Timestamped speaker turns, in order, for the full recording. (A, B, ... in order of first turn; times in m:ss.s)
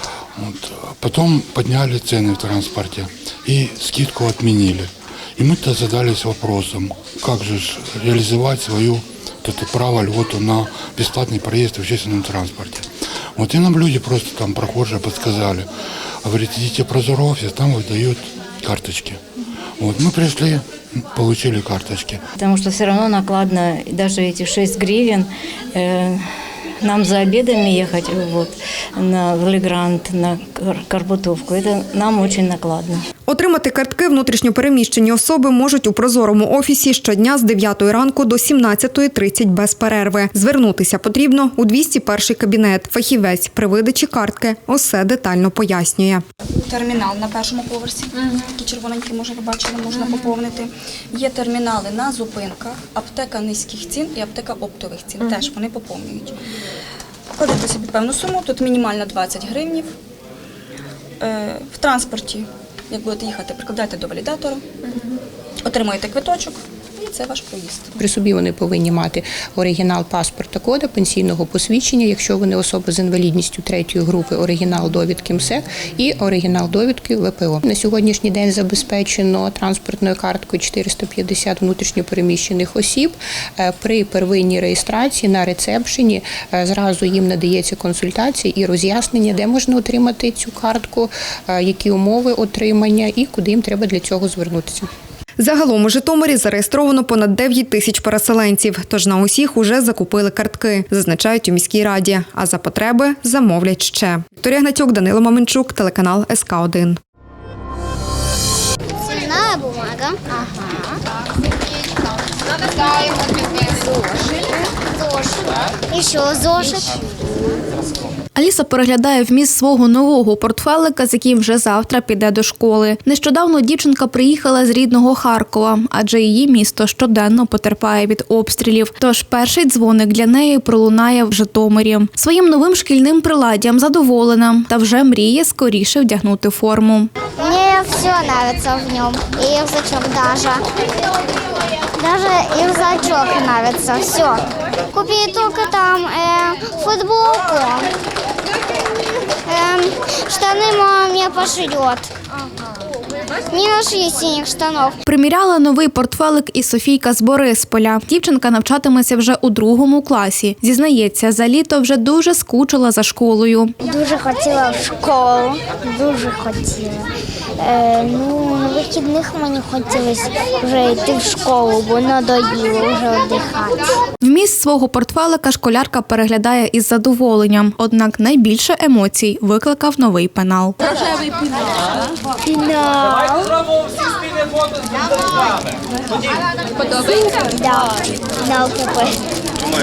0:00.4-0:15.7 A
0:16.2-0:19.2 A
0:19.8-0:22.2 A
0:22.4-0:26.3 B
0:26.8-0:33.0 B
0:33.3-0:46.2 C
0:46.5-0:56.4 D
0:57.4-0:59.9 D
1:01.2-1:04.7 D
1:05.6-1:08.0 D
1:08.0-1:34.9 E
1:35.4-1:47.0 C
1:49.0-1:51.0 F
1:52.6-1:57.0 F
1:58.4-2:17.1 G
2:17.4-2:20.6 F
2:22.0-2:27.9 F
2:29.5-2:32.1 F
2:33.5-2:35.0 F
2:35.1-2:43.7 G
2:43.8-2:54.0 F
2:54.2-3:00.8 G
3:02.4-3:03.6 F
3:06.9-3:09.2 F